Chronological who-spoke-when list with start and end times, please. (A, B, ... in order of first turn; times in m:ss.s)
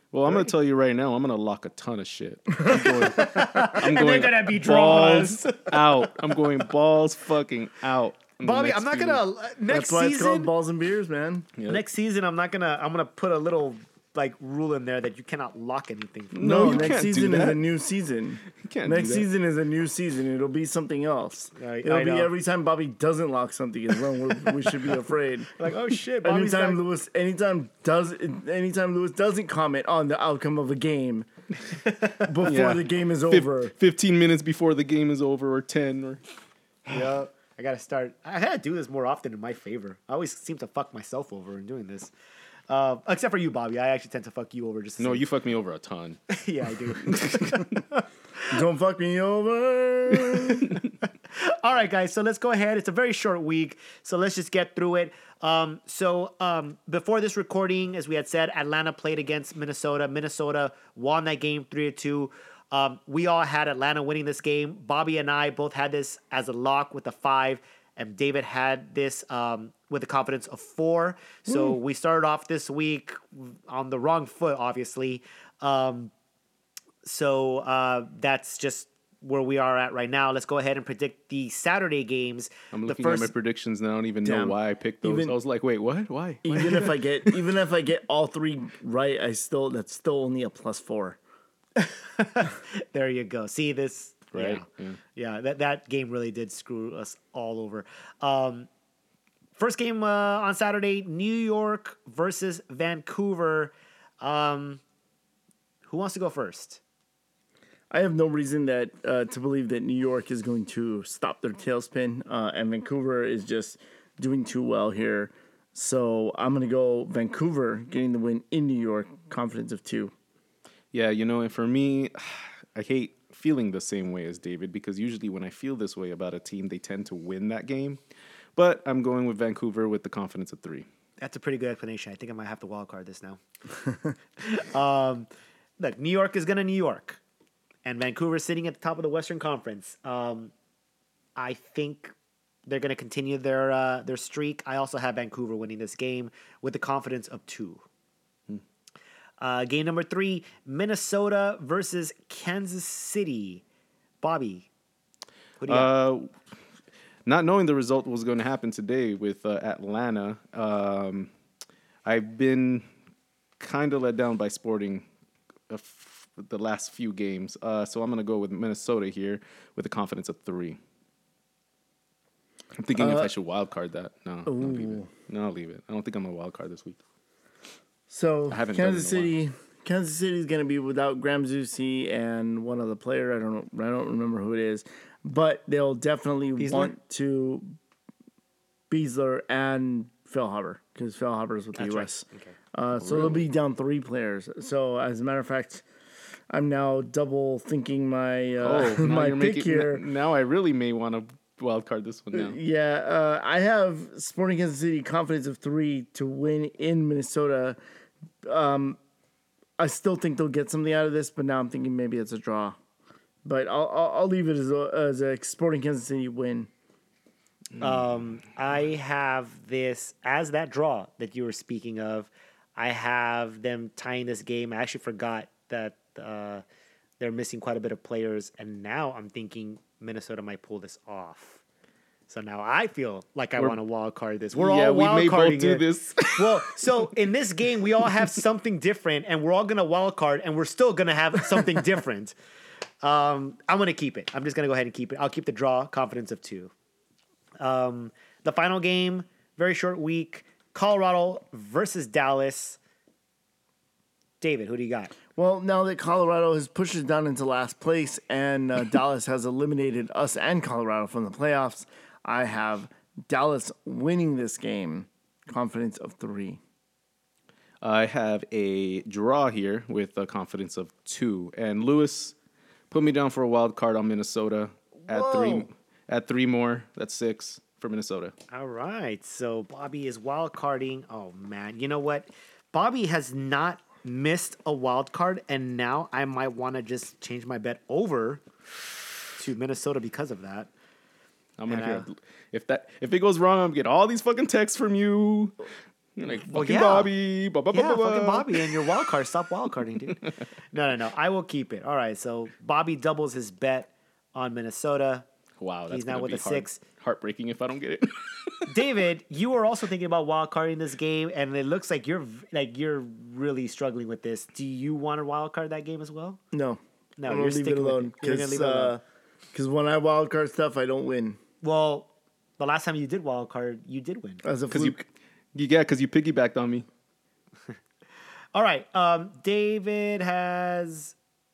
0:00.1-0:09.2 A
0:02.6-0:03.7 B
0:02.9-0:06.4 C
0:08.4-0:10.5 C
0:09.7-0:11.5 B
0:11.6-0:11.8 A
0:11.6-0:17.0 C
0:16.3-0:17.7 A
0:16.4-0:25.5 B
0:18.6-0:19.3 A
0:21.6-0:22.3 C
0:25.6-0:26.8 C
0:26.2-0:31.3 B
0:31.8-0:32.2 C
0:32.2-0:33.7 B
0:32.4-0:36.2 A
0:36.9-0:42.1 C
0:42.7-0:45.3 C
0:45.0-0:46.2 A
0:46.3-0:48.1 C
0:47.0-0:47.8 A
0:48.5-0:50.7 B
0:50.7-1:16.1 C
1:11.5-1:11.8 B
1:17.0-1:23.3 C
1:22.7-1:27.3 A
1:24.2-1:25.3 B
1:26.4-1:31.2 B
1:31.8-1:38.7 C
1:34.3-1:35.0 A
1:39.6-1:44.8 C
1:45.8-1:46.8 C
1:47.9-2:00.1 B
2:00.9-2:08.0 A
2:08.6-2:10.9 A
2:11.2-2:13.4 C
2:14.4-2:15.3 C
2:15.8-2:17.2 C
2:17.8-2:20.5 C
2:21.4-2:22.1 C
2:22.7-2:27.8 C
2:29.4-2:33.6 C
2:34.2-2:34.7 C
2:35.6-2:35.9 C
2:35.7-2:36.3 A
2:37.2-2:41.3 A
2:42.1-2:42.8 A
2:43.6-2:45.1 A
2:45.7-2:50.8 A
2:52.8-2:57.0 A
2:52.9-2:53.3 B
2:54.5-2:55.1 B
2:58.1-3:07.7 B
2:58.5-2:59.4 A
3:06.6-3:06.9 C
3:08.9-3:15.8 B
3:11.7-3:12.6 C
3:13.0-3:13.5 A
3:16.5-3:20.0 B
3:18.6-3:22.6 A
3:22.3-3:27.8 B
3:28.4-3:29.0 B
3:29.8-3:32.8 B
3:33.4-3:36.7 B
3:37.8-3:46.6 C
3:47.2-3:51.6 C
3:52.3-4:02.4 C
3:54.5-3:57.1 A
4:03.0-4:06.7 C
4:07.6-4:12.8 C
4:14.4-4:15.1 C
4:15.4-4:26.6 B
4:27.8-4:32.4 A
4:32.9-4:38.3 A
4:35.1-4:35.7 B
4:38.5-4:48.4 C
4:49.4-4:50.7 C
4:51.6-4:55.6 A
4:51.7-4:52.1 C
4:56.2-4:59.0 A
4:56.5-4:57.1 C
4:57.7-5:00.2 C
5:00.7-5:05.3 C
5:05.6-5:08.8 A
5:05.9-5:06.8 C
5:08.7-5:16.4 C
5:16.5-5:19.0 B
5:17.2-5:19.0 C
5:19.5-5:21.4 B
5:21.6-5:24.4 C
5:24.4-5:25.0 B
5:24.7-5:26.9 A
5:28.5-5:31.1 C